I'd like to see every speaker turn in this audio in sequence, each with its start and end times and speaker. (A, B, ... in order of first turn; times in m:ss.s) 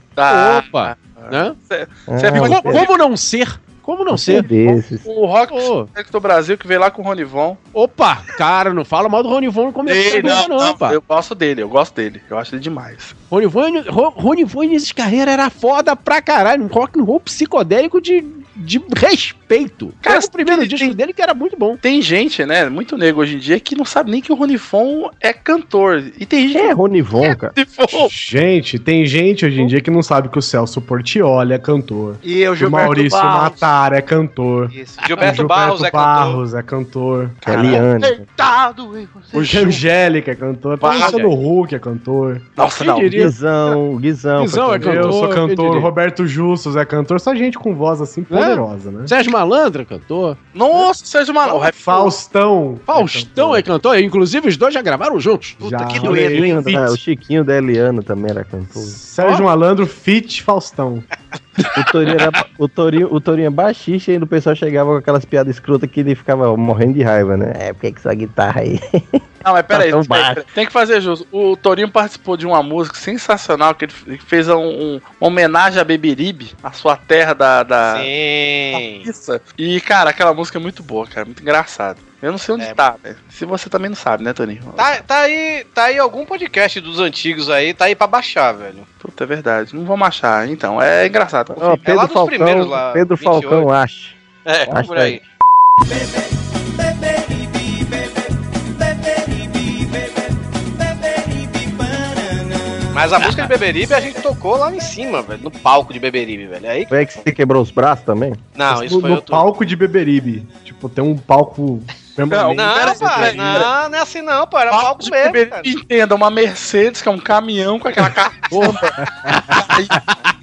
0:00.2-0:03.0 A
0:00.3-0:01.6 B
0:02.1-0:02.9 C
0:02.4-0:04.5 B
0:04.1-0:05.1 C
0:05.0-0:07.6 A
0:05.5-0:05.9 B
0:07.7-0:11.0 B
0:09.9-0:13.1 A
0:13.3-0:21.8 B
0:20.0-0:21.0 A
0:21.8-0:28.1 A
0:26.5-0:27.6 C
0:27.9-0:37.7 D
0:32.2-0:33.7 E
0:34.7-0:35.4 E
0:35.0-0:36.4 F
0:37.4-0:37.9 A
0:37.4-0:38.2 C
0:37.8-0:39.8 E
0:39.3-0:42.5 D
0:39.4-0:39.7 A
0:40.8-0:41.2 A
0:40.9-0:41.3 B
0:42.6-0:43.3 A
0:42.8-0:43.4 B
0:43.1-0:45.2 C
0:44.4-0:45.9 B
0:44.7-0:49.1 D
0:48.3-0:50.4 B
0:50.5-0:52.2 A
0:51.5-0:53.6 D
0:52.9-0:56.6 B
0:55.6-0:57.0 D
0:56.0-0:59.0 C
0:58.8-1:01.0 D
1:01.8-1:09.2 C
1:09.4-1:18.1 A
1:09.7-1:10.4 C
1:17.9-1:19.1 F
1:18.7-1:25.0 A
1:24.8-1:28.9 F
1:29.0-1:31.9 A
1:31.5-1:35.2 C
1:31.8-1:33.7 F
1:34.5-1:35.2 F
1:42.9-1:46.9 F
1:46.9-1:48.4 C
1:48.6-1:49.4 F
1:48.7-1:53.7 D
1:52.3-1:53.7 A
1:52.5-1:55.7 F
1:54.7-1:58.9 A
1:59.2-2:00.1 B
1:59.5-2:00.0 A